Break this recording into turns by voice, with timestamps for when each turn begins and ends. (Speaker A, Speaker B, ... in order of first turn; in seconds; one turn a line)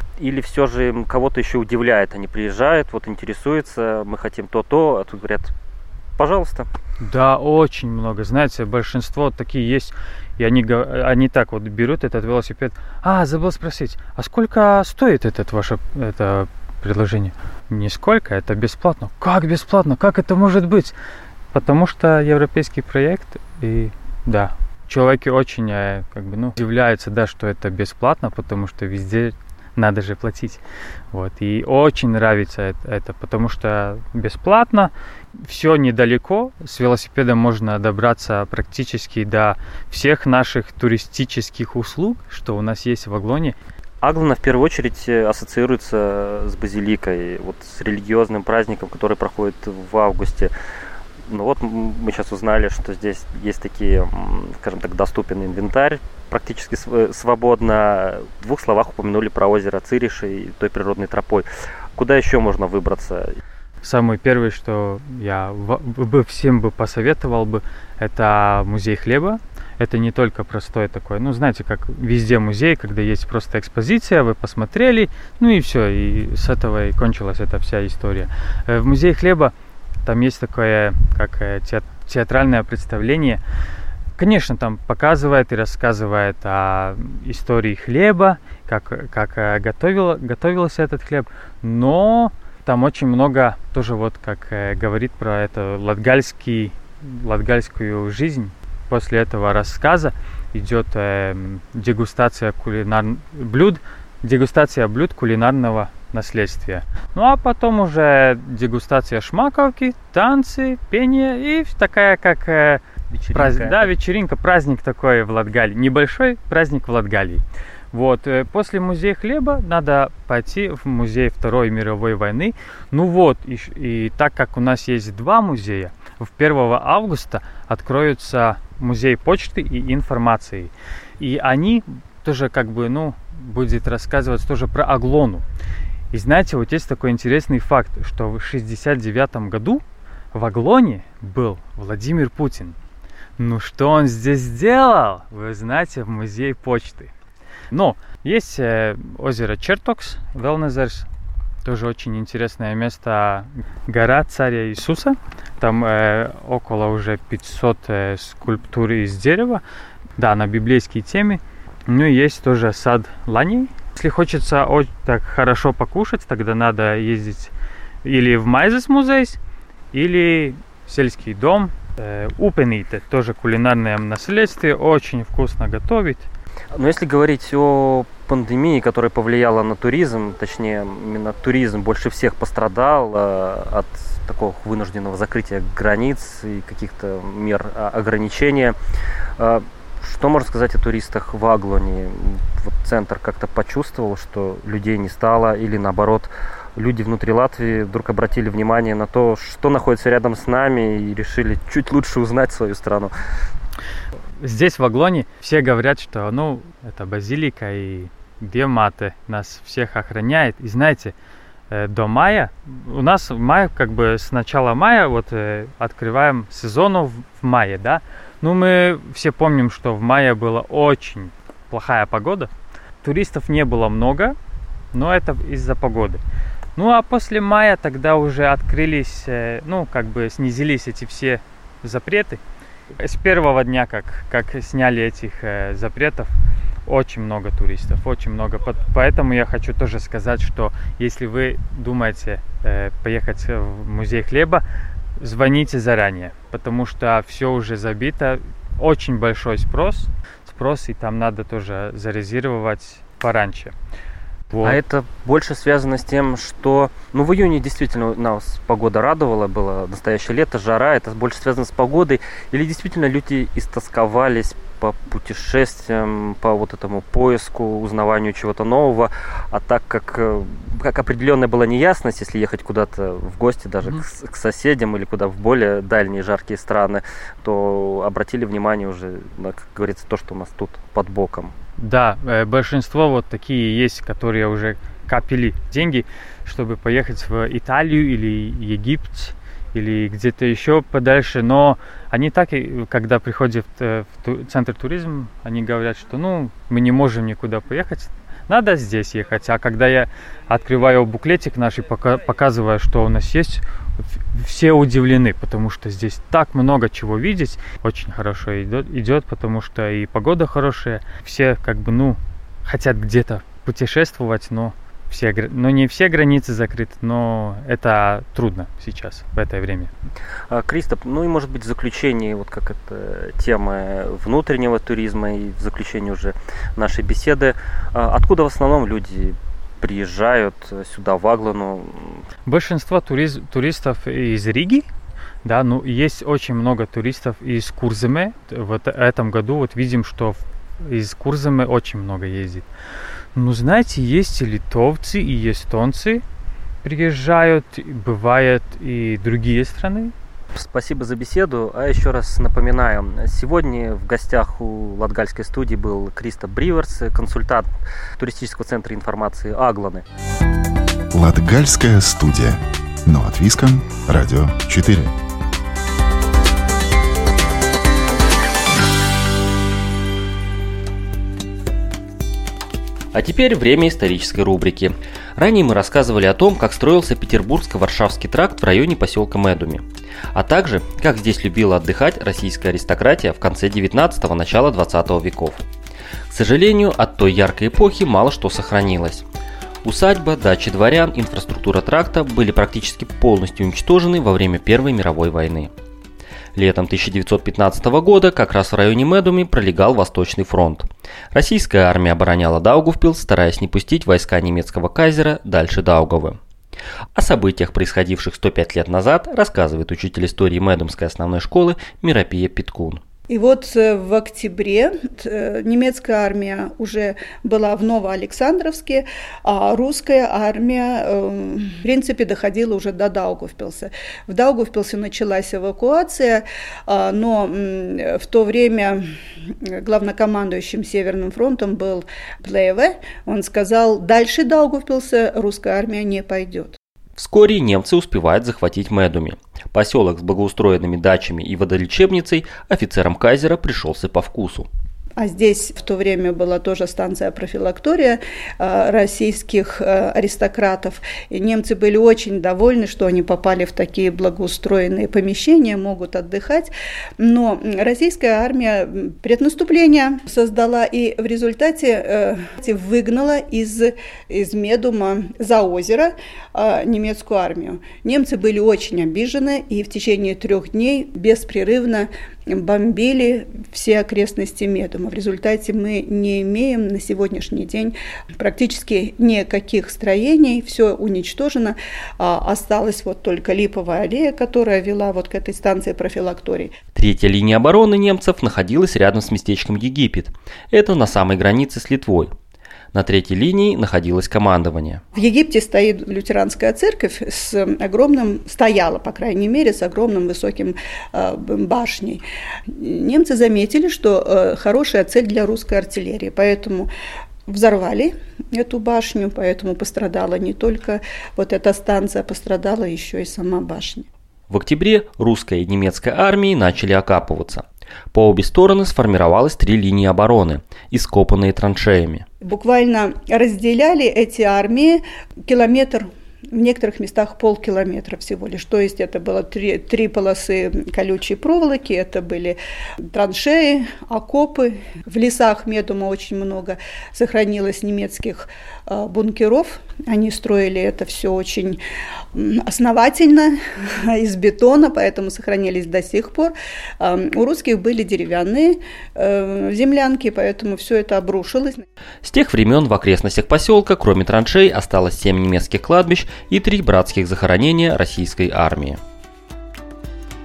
Speaker A: 0.2-5.5
Speaker A: 6.2-6.7
Speaker B: 7.0-20.9
Speaker B: 21.5-30.6
Speaker B: 31.1-43.5
Speaker A: 44.0-50.5
Speaker A: 51.3-63.4
Speaker B: 63.8-79.5
Speaker B: 80.0-83.4
Speaker B: 84.2-135.4
Speaker A: 113.1-113.9
Speaker B: 136.1-139.8
Speaker B: 140.3-142.8
Speaker B: 143.4-147.1
Speaker B: 147.7-151.1
Speaker B: 151.6-159.6
Speaker B: 160.2-167.5
Speaker B: 168.0-169.4
Speaker B: 169.9-176.3
Speaker A: 176.7-188.7
Speaker A: 189.4-203.1
Speaker B: 204.4-211.1
Speaker B: 211.7-222.5
Speaker B: 223.0-224.3
Speaker B: 224.9-226.2
Speaker B: 226.8-232.4
Speaker B: 233.0-236.3
Speaker B: 236.8-244.6
Speaker B: 245.2-253.7
Speaker B: 254.5-254.8
Speaker A: 254.6-281.5
Speaker B: 281.8-303.6
Speaker B: 304.3-319.9
Speaker A: 320.5-332.2
Speaker B: 332.4-334.9
Speaker B: 335.4-342.6
Speaker B: 343.3-346.2
Speaker B: 346.8-350.1
Speaker A: 350.5-360.0
Speaker C: 361.1-365.1
Speaker A: 373.1-385.6
Speaker A: 386.3-389.2
Speaker A: 389.8-395.7
Speaker A: 396.5-406.4
Speaker A: 407.1-413.0
Speaker D: 413.3-436.8
Speaker A: 437.2-444.7
Speaker D: 445.2-486.7
Speaker A: 486.9-492.3
Speaker A: 492.9-495.0
Speaker D: 495.1-506.9
Speaker D: 507.5-514.1
Speaker A: 514.5-522.2
Speaker D: 522.4-532.6
Speaker D: 533.1-541.8
Speaker D: 542.3-551.8
Speaker A: 552.2-559.0